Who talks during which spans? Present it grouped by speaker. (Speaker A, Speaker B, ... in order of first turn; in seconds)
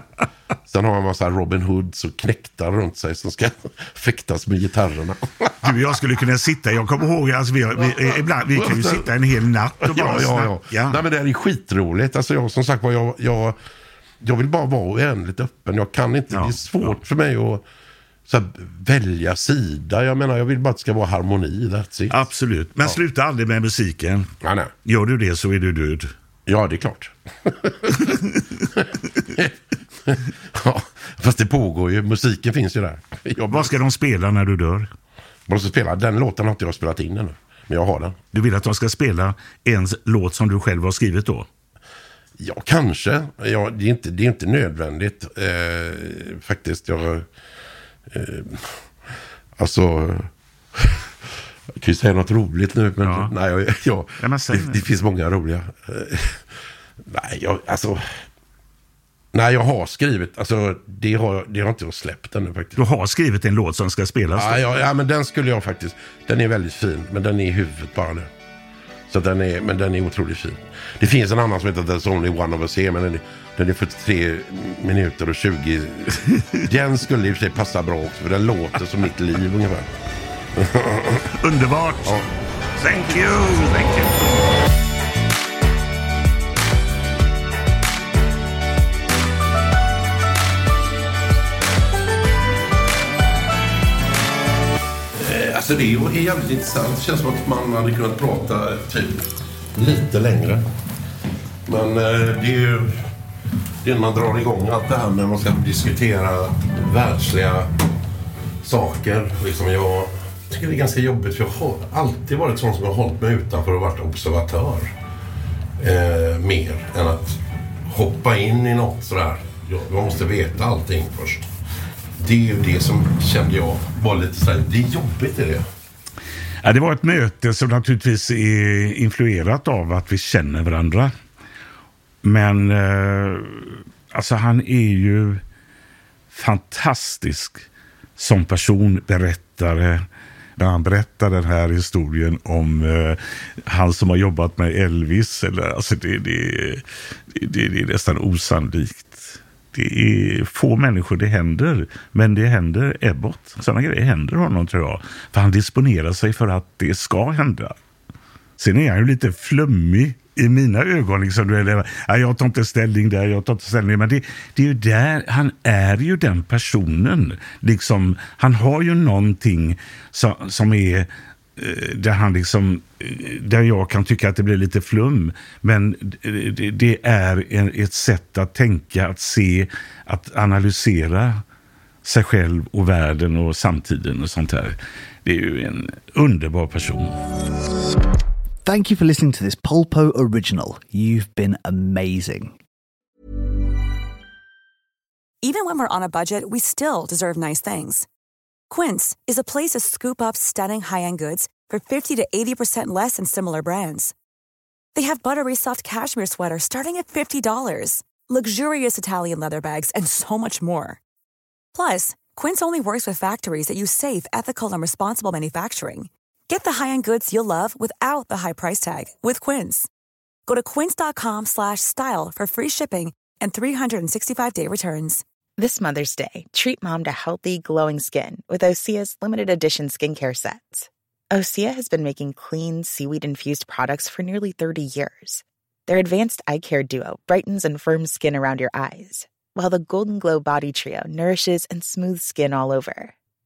Speaker A: 0.7-5.8, 7.7-9.1, 9.8-13.6, 14.2-17.6, 18.3-22.2, 24.4-24.7, 26.4-28.1, 28.7-33.7, 35.5-38.2, 42.4-47.3, 48.1-48.8, 49.6-51.1, 51.7-56.4, 57.0-58.2, 59.3-62.8, 64.3-68.3, 69.1-79.9, 80.5-81.3, 95.1-100.6, 101.7-103.1, 103.8-107.7, 108.6-114.9, 115.8-121.5, 122.2-125.6
Speaker B: 5.6-11.0, 16.3-17.0, 22.1-24.3, 24.8-26.1, 28.0-28.4, 33.5-34.9, 38.3-41.5, 53.0-53.3, 54.2-54.8, 62.8-64.6, 81.3-82.2, 82.8-84.4, 126.6-131.1, 132.2-135.4, 136.3-137.7, 138.2-140.1, 140.6-157.8, 158.6-181.4, 182.0-187.2
Speaker C: 188.6-192.6
Speaker D: 195.4-198.1, 198.7-204.1, 204.9-211.0, 211.7-219.9, 220.5-225.2
Speaker E: 225.6-243.1